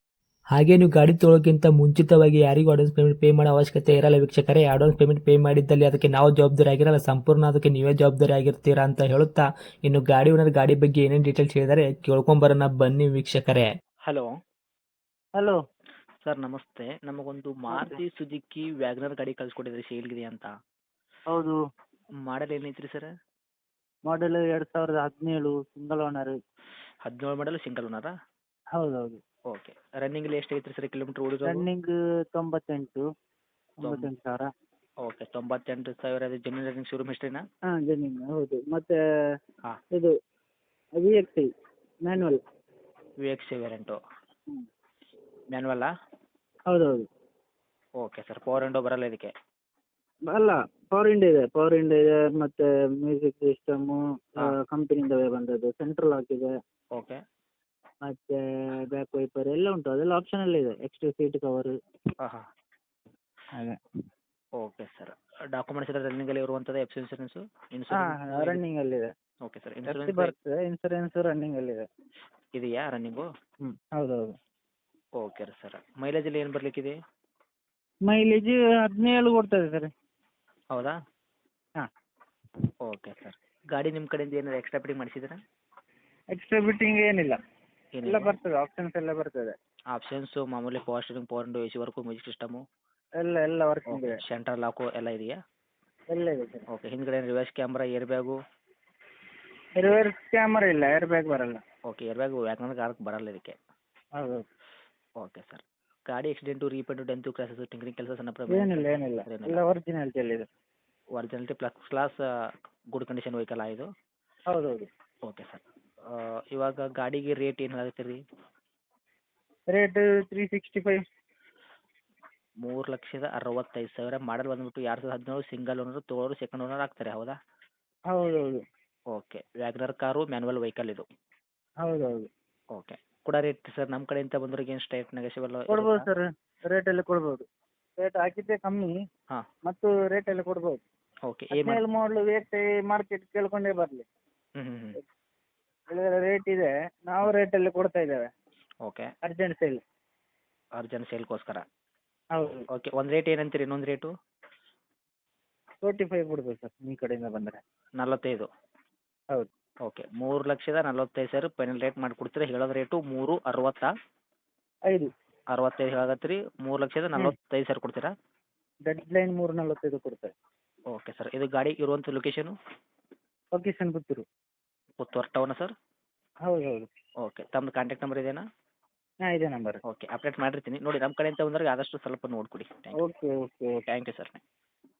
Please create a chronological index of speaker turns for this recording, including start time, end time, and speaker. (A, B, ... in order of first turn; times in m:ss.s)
0:00.5-0:13.7 A
0:16.2-0:20.5 B
0:17.7-0:18.0 C
0:21.3-0:21.6 C
0:22.2-0:23.1 B
0:24.1-0:26.3 C
0:27.0-0:28.1 B
0:28.8-0:29.2 C
0:29.5-0:31.6 B
0:31.5-0:33.0 C
0:33.8-0:34.5 C
0:33.8-0:34.1 B
0:35.0-0:37.4 B
0:37.7-0:39.0 C
0:41.0-0:41.5 C
0:42.0-0:42.4 C
0:43.2-0:44.0 B
0:45.5-0:45.9 B
0:46.7-0:47.0 C
0:48.0-0:49.3 B
0:50.3-0:56.5 C
0:58.0-0:58.4 C
0:58.9-1:01.7 C
1:03.5-1:03.8 C
1:04.6-1:08.6 B
1:07.9-1:09.1 C
1:09.4-1:10.3 B
1:09.9-1:11.9 C
1:12.5-1:13.3 B
1:13.6-1:14.3 C
1:15.2-1:16.9 B
1:18.1-1:19.9 C
1:22.8-1:25.4 B
1:26.3-1:27.4 C
1:28.0-1:28.4 B
1:28.0-1:29.5 C
1:29.9-1:32.6 B
1:33.2-1:34.2 C
1:33.9-1:35.4 B
1:36.1-1:36.6 C
1:36.7-1:38.4 B
1:39.8-1:41.6 C
1:41.9-1:43.6 B
1:44.2-1:44.4 C
1:45.2-1:49.6 B
1:48.5-1:50.5 C
1:51.1-1:52.2 B
1:52.9-1:53.9 B
1:54.5-1:54.9 C
1:55.2-1:58.2 B
1:59.7-2:01.0 C
2:02.6-2:07.4 B
2:08.1-2:08.6 C
2:09.1-2:11.0 B
2:11.8-2:12.3 C
2:12.7-2:16.1 B
2:15.7-2:17.4 C
2:18.0-2:18.9 C
2:19.7-2:20.8 C
2:21.3-2:21.8 B
2:21.5-2:24.1 C
2:24.6-2:25.0 B
2:25.9-2:28.3 C
2:29.2-2:29.8 C
2:30.8-2:31.6 B
2:32.3-2:32.6 C
2:32.7-2:34.1 B
2:35.8-2:37.6 C
2:38.0-2:38.5 B
2:39.8-2:43.9 B
2:45.5-2:48.1 B
2:48.9-2:50.3 C
2:50.9-2:52.5 B
2:53.5-2:54.2 C
2:55.0-2:55.7 B
2:56.5-2:56.9 C
2:57.2-2:58.4 B
2:59.2-2:59.8 C
2:59.8-3:03.0 B
3:03.0-3:03.8 C
3:03.9-3:04.4 B